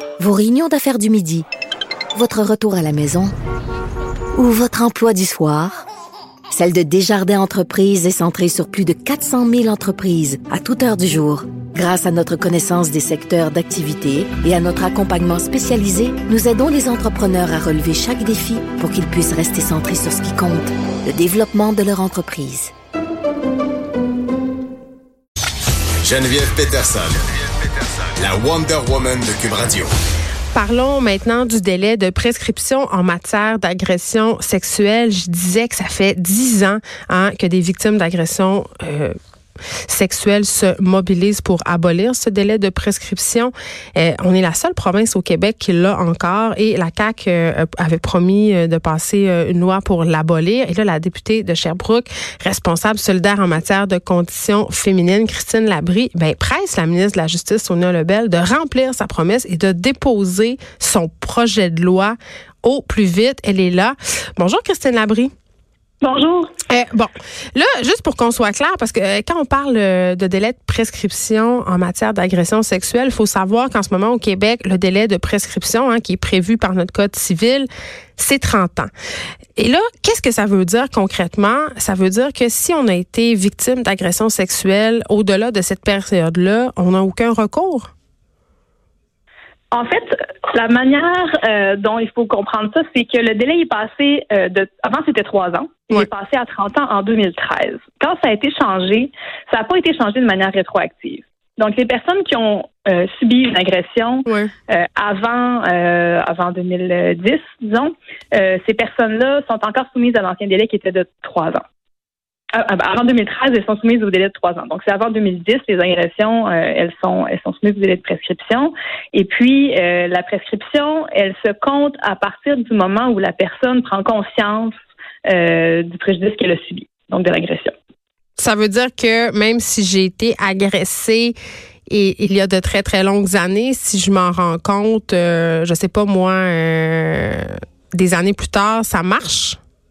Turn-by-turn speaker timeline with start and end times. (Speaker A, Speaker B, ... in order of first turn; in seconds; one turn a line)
Speaker A: 0.2-1.5
Speaker A: 2.1-3.3
Speaker A: 4.4-5.9
Speaker A: 6.5-22.7
Speaker B: 26.0-29.9
Speaker C: 30.5-39.2
Speaker C: 39.9-65.3
Speaker D: 66.0-66.5
Speaker C: 66.7-78.9
Speaker C: 79.6-87.9
Speaker D: 89.7-111.6
Speaker D: 112.5-124.7
Speaker D: 125.3-127.7
Speaker C: 128.4-131.3
Speaker C: 131.9-139.6